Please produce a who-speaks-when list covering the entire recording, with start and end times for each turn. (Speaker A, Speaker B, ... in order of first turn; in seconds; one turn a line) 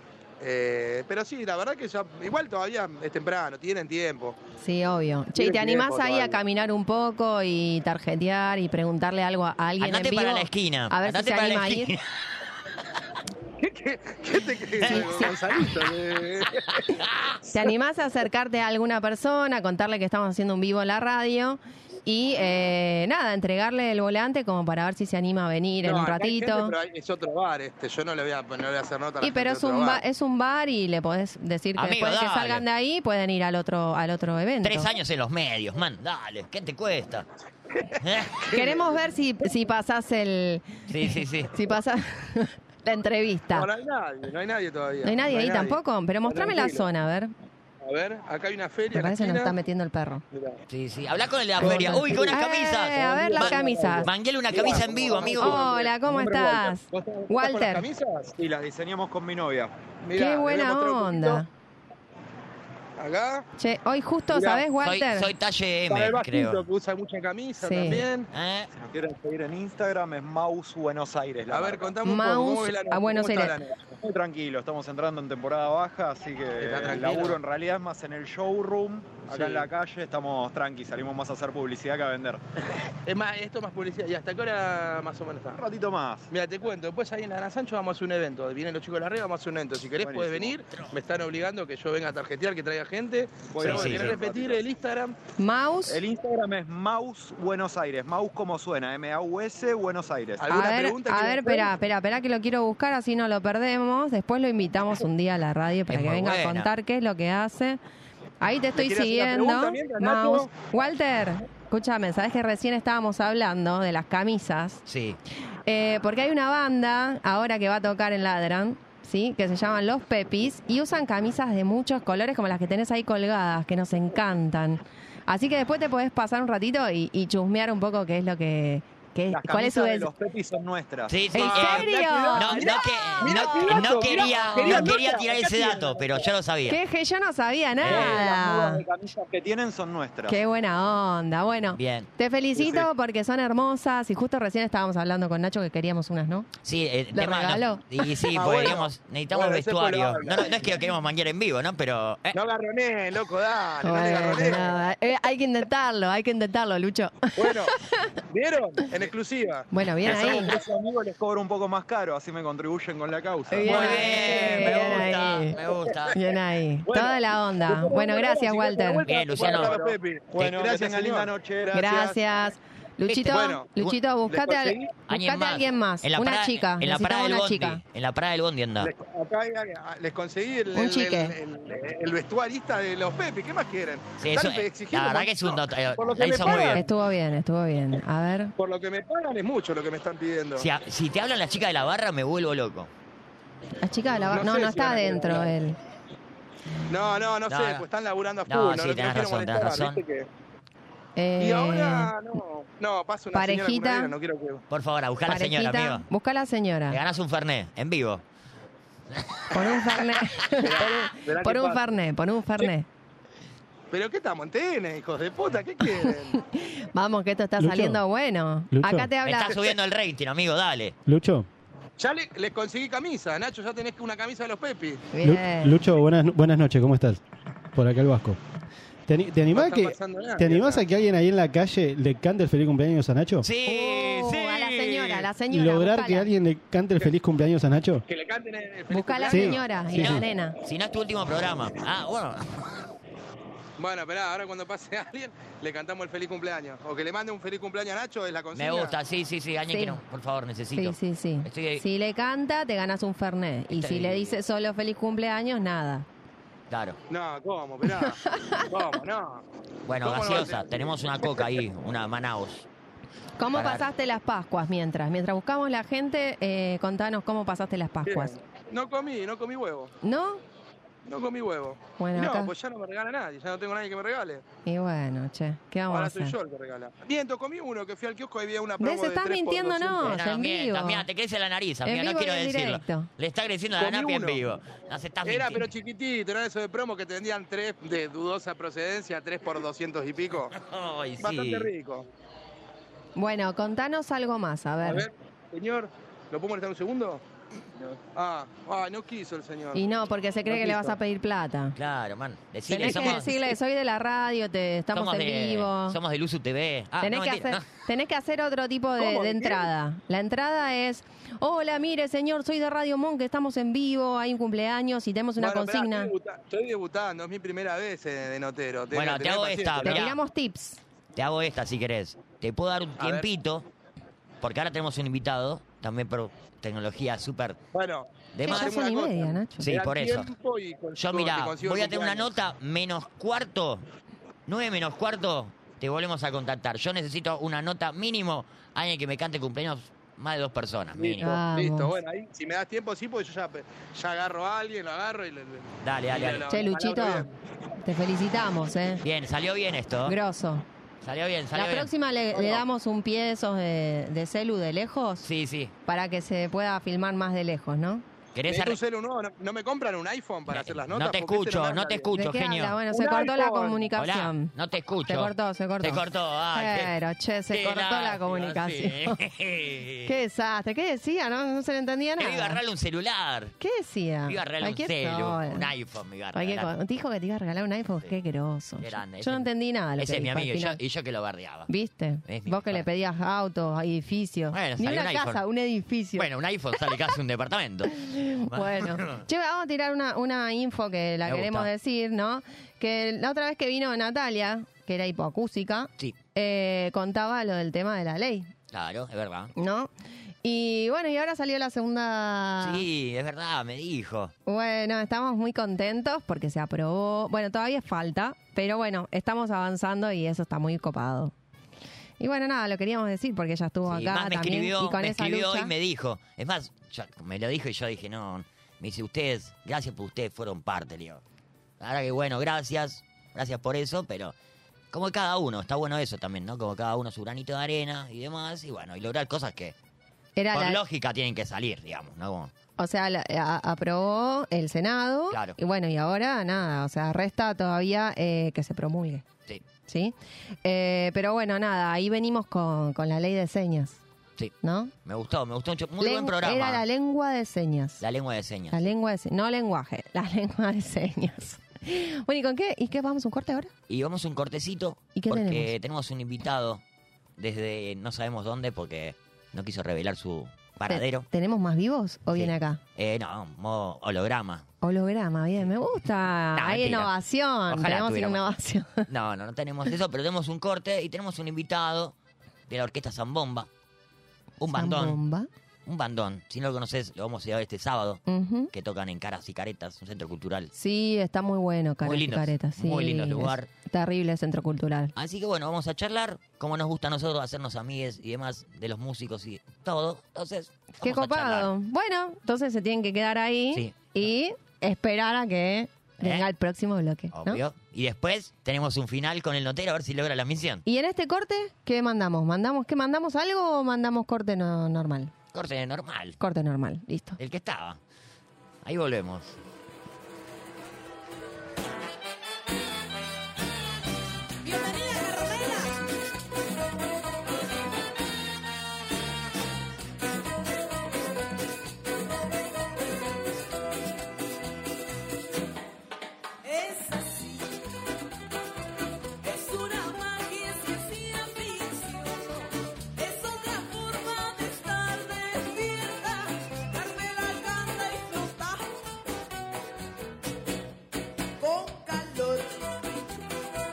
Speaker A: 0.4-4.4
Speaker B: 4.6-11.9
Speaker A: 5.3-6.4
Speaker C: 9.8-12.0
Speaker A: 13.6-16.8
Speaker C: 14.8-15.3
Speaker B: 14.8-15.3
Speaker B: 17.5-26.7
Speaker A: 25.8-30.0
Speaker B: 29.2-34.9
Speaker C: 31.8-32.6
Speaker C: 34.6-37.2
Speaker C: 38.0-38.4
Speaker A: 38.4-39.0
Speaker B: 38.5-43.7
Speaker C: 40.9-41.5
Speaker A: 43.5-46.9
Speaker B: 45.0-47.3
Speaker A: 47.8-49.5
Speaker B: 48.9-50.2
Speaker A: 50.3-50.6
Speaker C: 50.7-55.6
Speaker A: 51.6-52.4
Speaker B: 51.6-54.1
Speaker A: 52.9-58.4
Speaker B: 55.2-57.8
Speaker D: 58.4-59.7
Speaker A: 60.0-61.4
Speaker B: 60.1-61.5
Speaker A: 63.0-63.5
Speaker B: 63.6-65.3
Speaker A: 64.3-64.6
Speaker C: 64.8-66.6
Speaker A: 65.9-68.3
Speaker B: 67.6-68.0
Speaker C: 68.3-68.7
Speaker D: 68.7-71.9
Speaker A: 71.5-74.0
Speaker B: 72.0-73.5
Speaker D: 74.0-82.4
Speaker A: 76.6-77.4
Speaker A: 79.3-79.7
Speaker A: 83.0-85.6
Speaker D: 85.5-86.3
Speaker A: 86.3-95.2
Speaker D: 90.0-90.6
Speaker D: 93.5-94.6
Speaker C: 93.6-94.1
Speaker B: 95.4-96.0
Speaker D: 95.9-100.5
Speaker A: 100.4-101.7
Speaker B: 100.5-107.8
Speaker C: 105.9-106.7
Speaker B: 108.4-114.8
Speaker A: 108.7-110.5
Speaker C: 114.8-115.2
Speaker B: 115.7-130.1
Speaker D: 129.3-131.7
Speaker C: 131.1-136.8
Speaker B: 131.3-134.9
Speaker A: 131.4-136.3
Speaker B: 136.7-138.8
Speaker C: 137.8-138.2
Speaker D: 137.8-140.4
Speaker B: 140.3-146.5
Speaker C: 141.7-142.1
Speaker A: 142.6-142.9
Speaker C: 146.6-152.4
Speaker B: 147.1-147.8
Speaker A: 148.3-150.8
Speaker A: 152.3-154.7
Speaker B: 153.8-158.1
Speaker A: 157.4-157.7
Speaker A: 158.3-161.0
Speaker B: 159.7-160.5
Speaker D: 160.1-164.9
Speaker C: 163.5-166.2
Speaker B: 163.5-165.6
Speaker A: 164.1-164.7
Speaker B: 166.1-169.0
Speaker A: 166.8-172.2
Speaker C: 169.1-169.7
Speaker D: 169.4-172.0
Speaker B: 171.7-177.8
Speaker C: 173.1-173.9
Speaker A: 173.3-173.7
Speaker A: 174.3-174.9
Speaker C: 175.1-178.9
Speaker A: 178.8-186.9
Speaker B: 180.7-181.3
Speaker C: 184.2-186.8
Speaker B: 186.3-188.5
Speaker A: 188.6-190.7
Speaker C: 190.6-192.9
Speaker B: 193.8-195.8
Speaker A: 194.3-195.5
Speaker A: 196.9-200.3
Speaker C: 197.5-197.8
Speaker C: 198.5-200.0
Speaker B: 201.2-202.1
Speaker A: 201.4-204.6
Speaker B: 203.3-204.1
Speaker C: 204.7-206.1
Speaker B: 205.3-207.0
Speaker C: 206.9-208.2
Speaker C: 209.2-209.4
Speaker B: 209.5-212.9
Speaker A: 210.6-211.8
Speaker A: 213.9-216.4
Speaker B: 216.0-219.6
Speaker E: 217.6-218.0
Speaker E: 218.7-219.1
Speaker C: 219.2-220.9
Speaker E: 221.1-221.5
Speaker A: 222.0-225.1
Speaker B: 225.1-225.8
Speaker E: 225.2-227.2
Speaker E: 227.7-228.4
Speaker E: 229.1-233.5
Speaker A: 229.5-230.9
Speaker C: 233.4-235.3
Speaker B: 233.6-236.3
Speaker E: 235.5-238.0
Speaker A: 238.1-239.7
Speaker B: 238.9-240.6
Speaker E: 239.3-240.2
Speaker C: 239.9-242.6
Speaker A: 243.8-248.9
Speaker C: 248.5-251.8
Speaker B: 249.7-250.0
Speaker B: 250.7-256.1
Speaker C: 253.7-254.3
Speaker C: 256.7-257.0
Speaker A: 257.1-259.4
Speaker B: 257.9-258.6
Speaker C: 259.9-262.7
Speaker A: 260.0-261.5
Speaker B: 263.4-268.3
Speaker C: 263.5-263.8
Speaker A: 268.1-269.9
Speaker B: 270.0-270.4
Speaker A: 271.1-274.4
Speaker B: 272.0-272.5
Speaker B: 274.6-276.4
Speaker A: 275.9-280.1
Speaker B: 278.8-281.0
Speaker C: 280.0-285.7
Speaker B: 281.8-283.1
Speaker A: 283.8-284.5
Speaker A: 285.2-290.5
Speaker C: 290.6-291.7
Speaker A: 291.2-292.1
Speaker B: 293.1-295.1
Speaker A: 294.8-297.2
Speaker A: 297.8-299.8
Speaker B: 299.7-301.8
Speaker A: 300.4-300.9
Speaker C: 301.8-303.5
Speaker B: 302.7-306.0
Speaker A: 302.8-303.2
Speaker C: 304.9-307.7
Speaker B: 307.0-316.1
Speaker A: 308.9-309.7
Speaker A: 315.4-320.1
Speaker C: 318.9-320.2
Speaker B: 319.8-320.8
Speaker C: 321.1-323.6
Speaker A: 323.0-323.3
Speaker C: 324.4-327.6
Speaker A: 327.7-332.4
Speaker C: 328.3-328.7
Speaker B: 328.4-329.7
Speaker C: 329.6-330.3
Speaker C: 331.0-333.8
Speaker C: 334.5-341.3
Speaker A: 340.9-347.3
Speaker B: 341.2-341.9
Speaker C: 345.8-346.5
Speaker B: 346.5-347.3
Speaker B: 347.8-349.0
Speaker C: 349.0-350.1
Speaker B: 350.1-350.6
Speaker C: 351.0-351.9
Speaker B: 351.5-355.3
Speaker A: 352.3-352.6
Speaker C: 355.2-355.7
Speaker B: 355.9-358.0
Speaker C: 358.3-358.8
Speaker A: 358.5-362.1
Speaker C: 360.5-362.8
Speaker B: 362.1-364.5
Speaker A: 362.9-363.9
Speaker C: 363.9-366.9
Speaker B: 365.1-366.0
Speaker B: 366.5-369.2
Speaker C: 367.5-370.1
Speaker B: 370.0-372.6
Speaker C: 372.2-373.5
Speaker B: 373.6-375.7
Speaker C: 374.3-376.7
Speaker B: 376.3-380.8
Speaker C: 378.8-381.7
Speaker B: 381.7-386.3
Speaker C: 382.2-382.8
Speaker C: 384.5-385.4
Speaker C: 386.1-389.2
Speaker B: 387.9-398.5
Speaker C: 391.2-391.7
Speaker C: 398.7-399.5
Speaker B: 399.6-399.9
Speaker B: 400.4-402.8
Speaker C: 402.6-404.3
Speaker B: 404.4-411.3
Speaker B: 412.2-415.7
Speaker C: 413.8-421.2
Speaker C: 421.8-424.3
Speaker C: 424.9-429.7
Speaker B: 430.4-430.8
Speaker C: 430.5-432.5
Speaker B: 432.8-439.2
Speaker C: 435.3-435.6
Speaker B: 439.9-444.0
Speaker B: 444.6-444.9
Speaker C: 445.0-446.8
Speaker B: 446.0-448.0
Speaker C: 448.0-448.9
Speaker B: 448.7-453.7
Speaker C: 453.9-456.8
Speaker B: 455.1-455.7
Speaker C: 457.4-461.2
Speaker B: 460.9-462.8
Speaker C: 462.3-464.6
Speaker B: 464.8-469.1
Speaker C: 466.5-467.1
Speaker C: 467.7-468.5
Speaker C: 469.1-472.1
Speaker C: 472.7-473.7
Speaker C: 474.6-475.2
Speaker B: 474.7-475.5
Speaker C: 475.9-480.7
Speaker B: 478.3-478.7
Speaker B: 480.7-485.1
Speaker C: 482.0-483.7
Speaker C: 485.1-491.7
Speaker B: 491.0-497.6
Speaker C: 497.3-500.8
Speaker B: 500.8-505.3
Speaker C: 505.5-506.4
Speaker B: 506.4-507.4
Speaker C: 507.4-508.0
Speaker C: 508.8-509.6
Speaker F: 514.6-516.0
Speaker F: 526.6-527.8
Speaker F: 529.4-539.1
Speaker F: 541.6-543.5